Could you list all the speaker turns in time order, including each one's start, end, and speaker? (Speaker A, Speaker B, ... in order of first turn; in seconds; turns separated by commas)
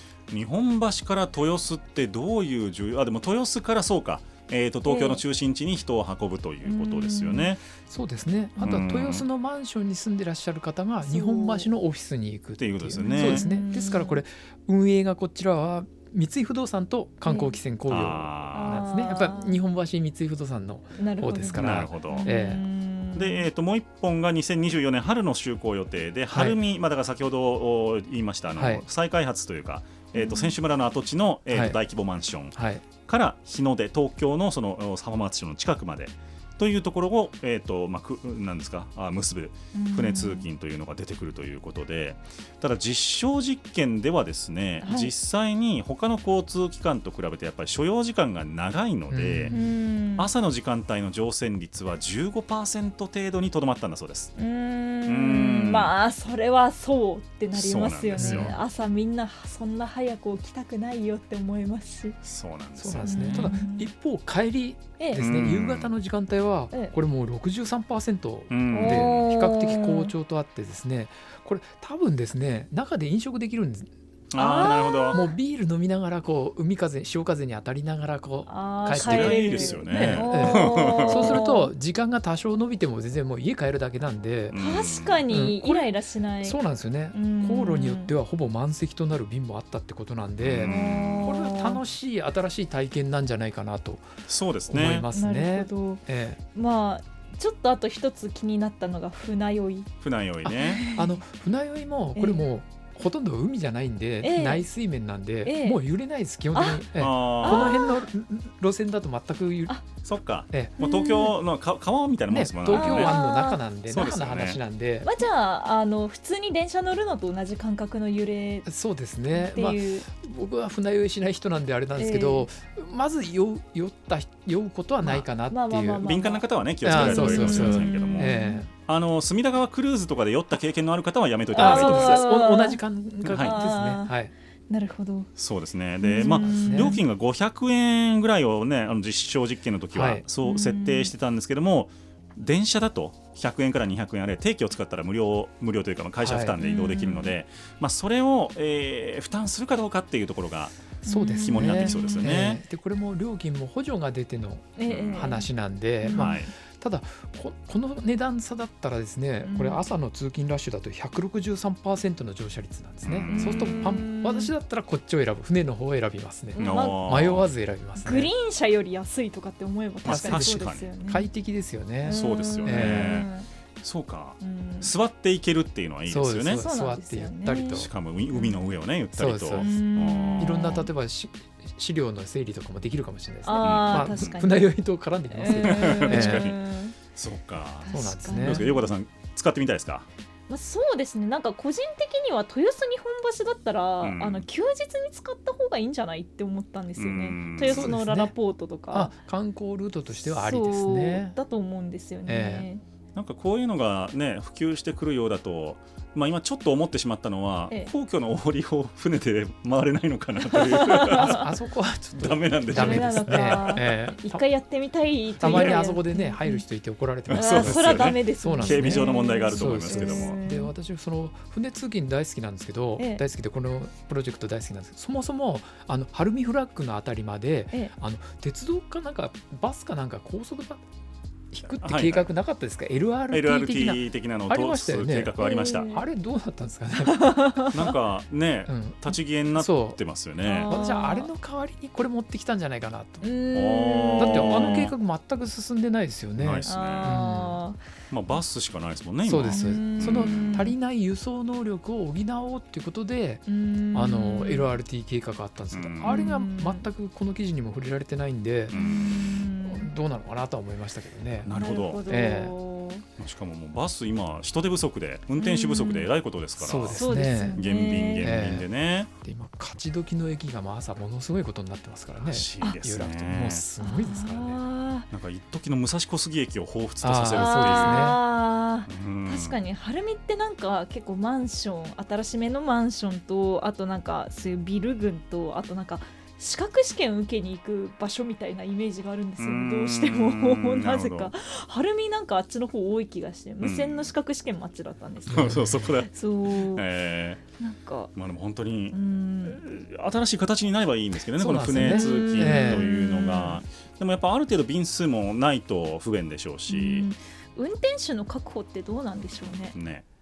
Speaker A: 0.3-7.6, Speaker B: 4.9-5.2, Speaker B: 6.7-7.5, Speaker C: 7.9-22.6, Speaker A: 8.6-9.2, Speaker B: 11.1-11.7, Speaker A: 12.6-13.5, Speaker B: 13.0-14.2, Speaker B: 17.2-17.6, Speaker A: 17.9-19.1, Speaker B: 18.5-19.6, Speaker B: 21.0-23.5, Speaker A: 21.6-22.3, Speaker A: 23.1-49.5, Speaker C: 26.3-26.6, Speaker C: 28.6-28.8, Speaker B: 30.1-30.6, Speaker C: 31.5-31.8, Speaker C: 32.5-32.8, Speaker B: 39.7-40.5, Speaker B: 44.8-45.1, Speaker C: 49.1-49.7, Speaker B: 49.5-50.3, Speaker A: 50.2-54.3, Speaker B: 54.4-62.2, Speaker A: 55.1-55.9, Speaker A: 57.5-58.6, Speaker C: 58.2-58.6, Speaker A: 62.2-63.5, Speaker C: 62.8-73.9, Speaker B: 63.0-63.9, Speaker B: 65.0-65.3, Speaker A: 65.2-65.9, Speaker A: 68.5-69.2, Speaker B: 68.7-70.1, Speaker A: 74.3-75.2, Speaker B: 74.4-75.3, Speaker C: 74.6-84.6, Speaker B: 78.5-81.7, Speaker A: 78.9-81.4, Speaker A: 84.5-85.2, Speaker B: 84.5-86.6, Speaker C: 85.3-85.9, Speaker C: 86.4-94.1, Speaker B: 87.1-88.1, Speaker A: 90.4-91.3, Speaker B: 90.7-91.8, Speaker A: 94.3-95.1, Speaker C: 94.7-96.4, Speaker B: 95.1-99.9, Speaker A: 100.0-100.8, Speaker B: 100.5-101.2, Speaker C: 100.9-109.8, Speaker B: 102.2-102.5, Speaker B: 104.2-104.7, Speaker B: 105.4-105.8, Speaker B: 106.5-106.9, Speaker A: 107.0-107.8, Speaker B: 107.4-108.1, Speaker A: 110.0-113.1, Speaker C: 110.5-110.8, Speaker B: 110.8-111.3, Speaker C: 112.3-115.2, Speaker B: 112.7-113.6, Speaker A: 113.9-114.6, Speaker B: 115.0-118.7, Speaker C: 118.7-126.1, Speaker B: 119.3-120.1, Speaker B: 122.0-122.5, Speaker B: 125.0-128.6, Speaker A: 126.0-128.3, Speaker C: 126.8-128.7, Speaker A: 128.9-132.3, Speaker B: 131.5-132.8, Speaker C: 131.6-134.3, Speaker A: 133.2-133.6, Speaker B: 133.3-134.2, Speaker B: 134.7-135.3, Speaker A: 135.4-150.8, Speaker B: 136.0-137.0, Speaker C: 136.2-137.0, Speaker C: 139.9-140.2, Speaker B: 140.4-141.1, Speaker C: 146.2-146.6, Speaker B: 146.6-147.3, Speaker C: 151.0-168.3, Speaker B: 151.1-152.3, Speaker A: 151.4-152.6, Speaker B: 154.8-155.5, Speaker A: 154.9-155.3, Speaker B: 156.0-156.5, Speaker A: 156.1-156.5, Speaker B: 159.4-159.9, Speaker A: 163.0-163.9, Speaker B: 163.3-164.5, Speaker B: 166.6-167.2, Speaker A: 166.6-167.5, Speaker B: 168.0-171.3, Speaker A: 170.0-170.9, Speaker C: 170.0-173.3, Speaker B: 172.0-173.5, Speaker A: 172.1-173.3, Speaker A: 173.8-176.6, Speaker B: 174.4-174.9, Speaker C: 176.1-177.9, Speaker B: 176.6-178.6, Speaker A: 177.7-180.8, Speaker C: 179.1-179.7, Speaker B: 179.6-180.9, Speaker C: 180.4-186.6, Speaker B: 183.4-184.7, Speaker A: 183.6-184.4, Speaker B: 185.3-187.0, Speaker A: 185.5-186.6, Speaker A: 187.1-190.1, Speaker B: 187.8-188.9, Speaker C: 187.9-188.7, Speaker B: 190.5-199.1, Speaker A: 194.0-194.4, Speaker A: 197.0-198.0, Speaker C: 197.6-198.4, Speaker C: 198.9-201.4, Speaker B: 200.1-202.8, Speaker C: 202.3-202.7, Speaker A: 203.2-211.5, Speaker B: 210.4-211.4, Speaker C: 211.0-214.4, Speaker A: 212.2-213.8, Speaker B: 212.7-216.6, Speaker C: 215.4-230.8, Speaker A: 215.4-215.8, Speaker A: 217.3-220.4, Speaker B: 217.3-220.7, Speaker B: 223.0-223.2, Speaker C: 231.5-237.7, Speaker A: 231.8-232.3, Speaker A: 233.3-235.9, Speaker B: 235.4-236.1, Speaker B: 237.1-237.8, Speaker A: 237.6-240.8, Speaker C: 238.7-240.0, Speaker B: 240.5-241.3, Speaker C: 240.7-243.3, Speaker B: 243.2-244.9, Speaker A: 243.5-244.9, Speaker C: 244.2-247.6, Speaker A: 246.4-247.2, Speaker B: 246.7-247.8, Speaker A: 248.1-250.7, Speaker C: 249.2-258.8, Speaker B: 249.5-250.7, Speaker B: 253.5-254.8, Speaker A: 255.7-256.2, Speaker B: 256.0-256.9, Speaker A: 258.7-259.2, Speaker B: 258.7-259.9, Speaker C: 259.6-262.6, Speaker A: 261.4-262.0, Speaker B: 261.5-263.1, Speaker A: 263.2-269.1, Speaker B: 265.4-266.1, Speaker C: 266.6-268.7, Speaker B: 266.8-268.5, Speaker C: 269.2-274.6, Speaker A: 272.2-273.6, Speaker B: 273.8-275.1, Speaker A: 275.1-278.2, Speaker C: 277.0-278.2, Speaker B: 277.3-296.9, Speaker A: 278.9-279.6, Speaker A: 289.4-291.3, Speaker A: 293.6-294.1, Speaker A: 295.3-297.4, Speaker C: 295.3-295.9, Speaker B: 297.6-298.1, Speaker A: 298.1-307.1, Speaker B: 298.9-299.6, Speaker C: 301.4-302.9, Speaker B: 301.6-303.6, Speaker B: 306.7-309.8, Speaker A: 309.7-310.1